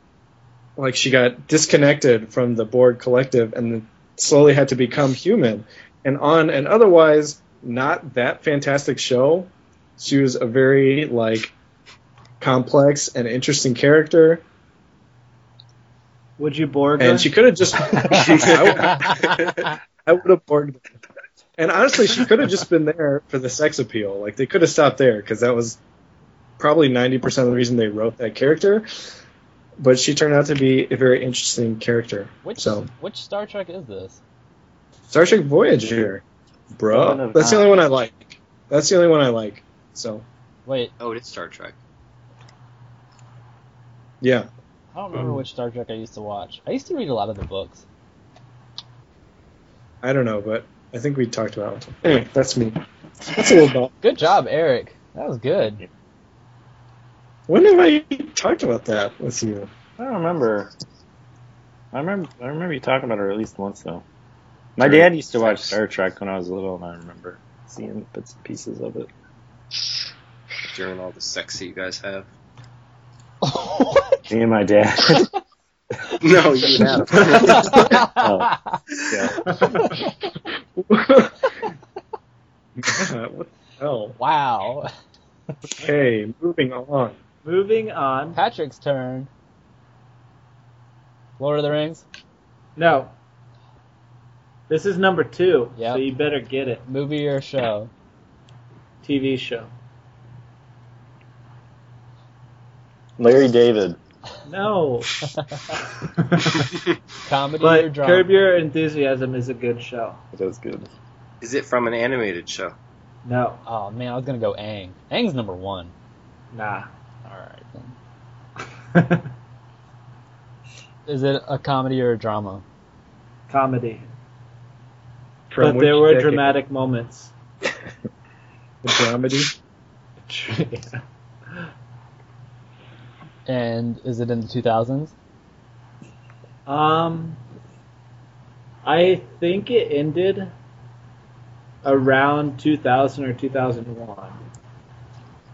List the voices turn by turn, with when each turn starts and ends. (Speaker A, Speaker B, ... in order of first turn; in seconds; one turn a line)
Speaker A: 0.8-11.5
Speaker A: 12.4-14.4
Speaker B: 16.4-17.3
Speaker A: 17.0-20.8
Speaker C: 18.1-19.6
Speaker D: 18.9-19.4
Speaker A: 21.6-25.8
Speaker A: 26.6-28.9
Speaker A: 29.8-32.9
Speaker D: 32.4-34.2
Speaker A: 35.1-40.2
Speaker E: 36.9-37.8
Speaker D: 40.6-40.9
Speaker C: 41.0-41.8
Speaker A: 44.2-44.5
Speaker D: 44.9-47.8
Speaker A: 45.1-45.4
Speaker A: 50.0-53.9
Speaker D: 54.0-55.8
Speaker A: 57.5-59.7
Speaker E: 60.0-60.7
Speaker E: 61.9-64.0
Speaker E: 64.8-69.1
Speaker C: 64.8-65.8
Speaker C: 70.7-72.3
Speaker D: 73.4-74.2
Speaker E: 74.3-75.2
Speaker C: 76.2-77.9
Speaker B: 76.8-77.5
Speaker D: 77.5-78.8
Speaker E: 78.0-78.5
Speaker E: 79.1-79.4
Speaker B: 79.5-79.8
Speaker D: 79.8-80.1
Speaker A: 80.8-81.5
Speaker A: 82.8-84.2
Speaker D: 84.2-84.9
Speaker A: 85.8-87.2
Speaker B: 87.4-88.4
Speaker D: 88.3-89.3
Speaker D: 91.4-92.0
Speaker B: 92.8-93.1
Speaker B: 94.7-96.8
Speaker D: 95.8-96.0
Speaker D: 96.8-97.9
Speaker B: 99.0-99.7
Speaker E: 103.2-104.0
Speaker B: 104.5-105.2
Speaker B: 105.8-106.7
Speaker D: 107.2-108.2
Speaker B: 107.6-110.2
Speaker E: 110.3-110.9
Speaker C: 111.4-112.7
Speaker B: 113.2-113.6
Speaker D: 113.7-115.9
Speaker B: 116.5-116.9
Speaker D: 117.2-117.9
Speaker B: 118.9-119.3
Speaker D: 121.1-122.6
Speaker B: 123.5-124.0
Speaker A: 125.5-126.6
Speaker B: 125.6-127.3
Speaker A: 128.8-129.5
Speaker B: 130.2-131.7
Speaker D: 133.5-135.1
Speaker B: 136.7-137.4
Speaker B: 138.8-140.5
Speaker B: 141.8-144.4